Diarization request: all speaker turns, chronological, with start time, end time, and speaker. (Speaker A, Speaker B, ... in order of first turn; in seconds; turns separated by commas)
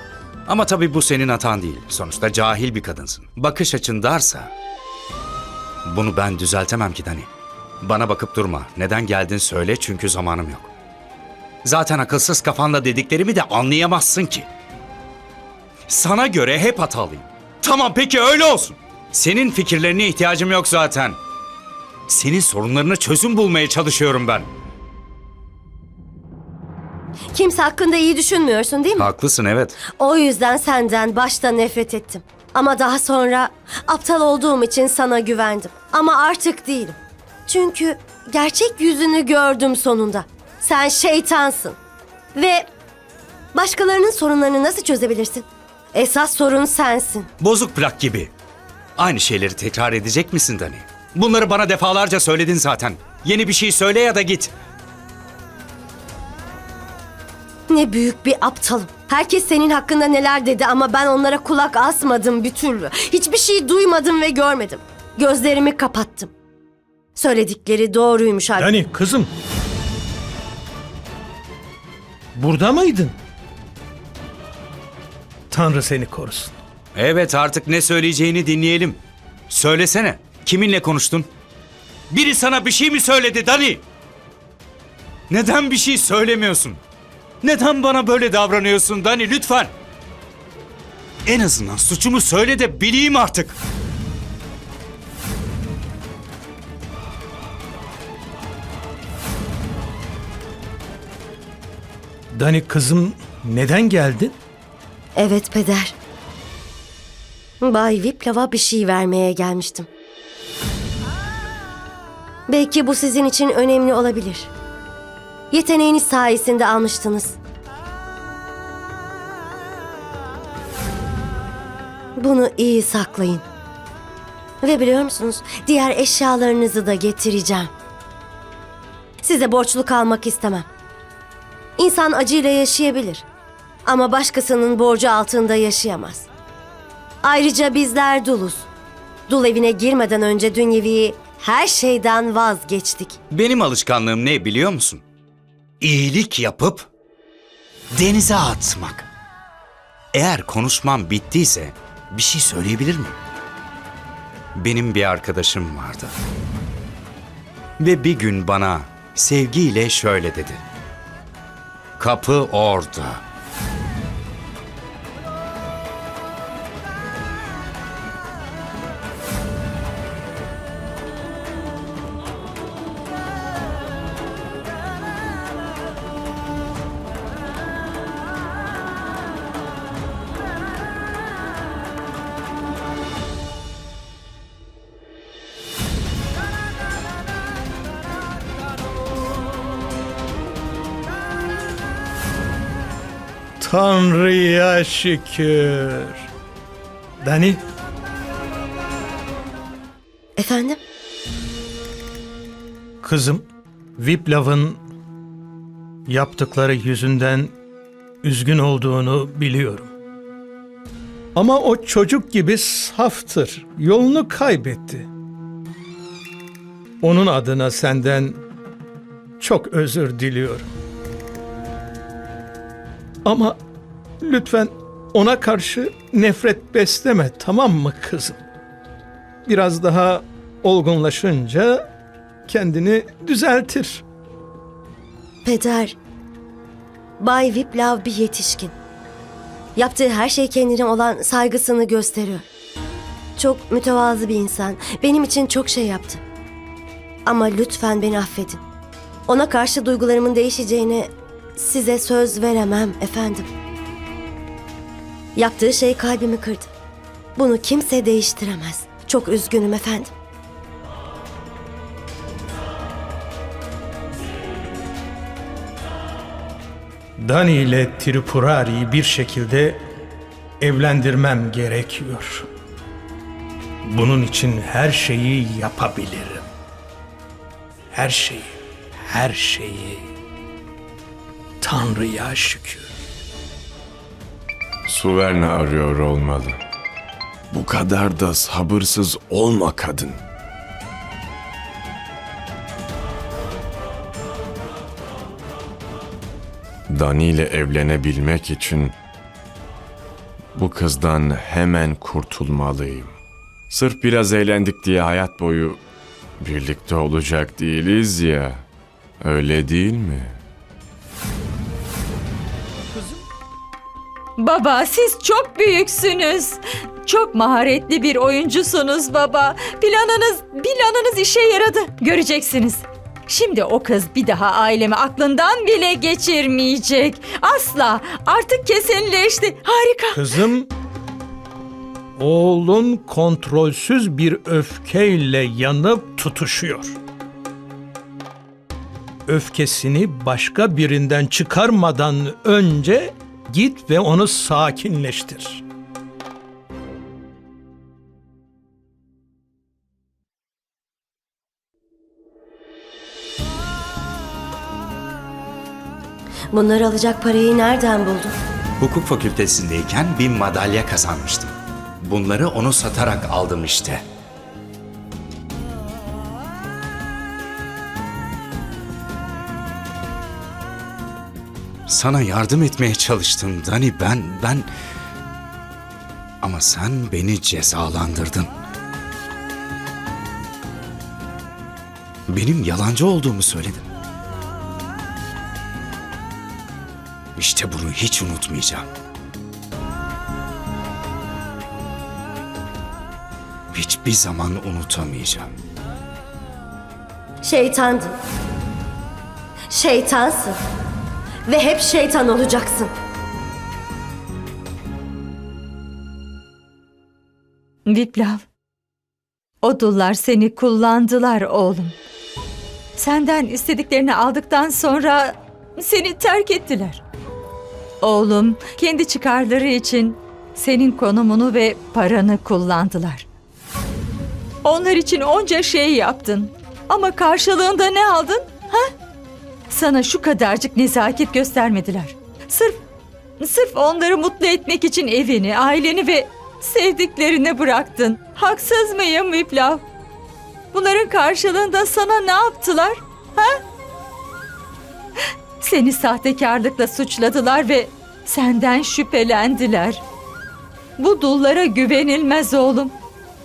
Speaker A: 0.5-4.5, Speaker A: 5.8-7.3, Speaker A: 7.8-10.7, Speaker A: 11.6-14.5, Speaker A: 15.9-21.2, Speaker A: 22.1-24.5, Speaker B: 27.3-29.1, Speaker A: 28.9-29.8, Speaker B: 30.0-41.8, Speaker B: 42.3-42.7, Speaker B: 43.5-47.3, Speaker A: 47.4-48.3, Speaker A: 49.0-54.5, Speaker B: 57.7-66.3, Speaker B: 67.2-68.7, Speaker C: 68.6-69.3, Speaker C: 72.3-73.2, Speaker C: 75.5-76.5, Speaker A: 76.9-81.3, Speaker A: 82.1-83.8, Speaker A: 85.3-86.8, Speaker A: 87.4-89.7, Speaker A: 91.2-93.6, Speaker C: 102.3-104.4, Speaker B: 105.1-105.9, Speaker B: 107.6-109.9, Speaker B: 112.5-114.5, Speaker B: 115.5-117.4, Speaker B: 122.2-123.4, Speaker B: 124.6-127.7, Speaker B: 129.2-130.7, Speaker B: 131.8-133.2, Speaker B: 133.8-136.3, Speaker B: 137.2-138.7, Speaker B: 139.3-143.2, Speaker A: 143.3-145.0, Speaker A: 145.8-146.9, Speaker A: 147.9-149.1, Speaker A: 150.1-153.2, Speaker A: 154.6-156.1, Speaker A: 157.8-160.6, Speaker A: 162.0-163.2, Speaker C: 193.6-196.3, Speaker C: 197.2-197.6, Speaker B: 200.3-200.8, Speaker C: 203.0-203.5, Speaker C: 204.0-204.8, Speaker C: 206.1-207.6, Speaker C: 208.2-209.9, Speaker C: 211.3-215.1, Speaker C: 217.0-218.4, Speaker C: 219.4-220.7, Speaker C: 223.2-223.6, Speaker C: 224.2-228.4, Speaker C: 229.4-231.8, Speaker C: 232.5-234.0, Speaker B: 235.4-236.0, Speaker B: 237.2-238.7, Speaker B: 239.8-242.5, Speaker B: 243.4-246.2, Speaker B: 247.2-248.6, Speaker B: 249.3-253.5, Speaker B: 255.3-256.7, Speaker B: 257.4-260.1, Speaker C: 267.2-269.8, Speaker C: 270.6-272.4, Speaker C: 273.9-276.4, Speaker C: 277.9-278.5, Speaker C: 279.1-280.1, Speaker C: 281.6-282.9, Speaker D: 284.9-286.6, Speaker D: 287.5-290.2, Speaker D: 296.9-298.9, Speaker D: 300.5-303.1, Speaker D: 303.7-305.8, Speaker D: 306.4-308.6, Speaker D: 309.2-310.4, Speaker C: 312.9-313.2, Speaker E: 314.4-330.2, Speaker C: 330.1-330.7, Speaker C: 332.2-337.0, Speaker C: 339.3-345.6, Speaker B: 356.5-358.3, Speaker A: 358.8-364.0, Speaker A: 371.9-374.7, Speaker A: 376.4-378.5, Speaker A: 382.3-383.8, Speaker A: 387.4-388.9, Speaker A: 393.7-395.5, Speaker B: 397.4-398.1, Speaker B: 399.7-400.6, Speaker B: 401.5-402.9, Speaker E: 407.9-408.4, Speaker E: 409.6-412.0, Speaker E: 412.9-417.0, Speaker E: 418.0-423.2, Speaker E: 424.6-428.9, Speaker E: 429.7-432.8, Speaker E: 433.4-439.8, Speaker E: 440.7-443.6, Speaker E: 445.6-450.0, Speaker E: 451.0-452.9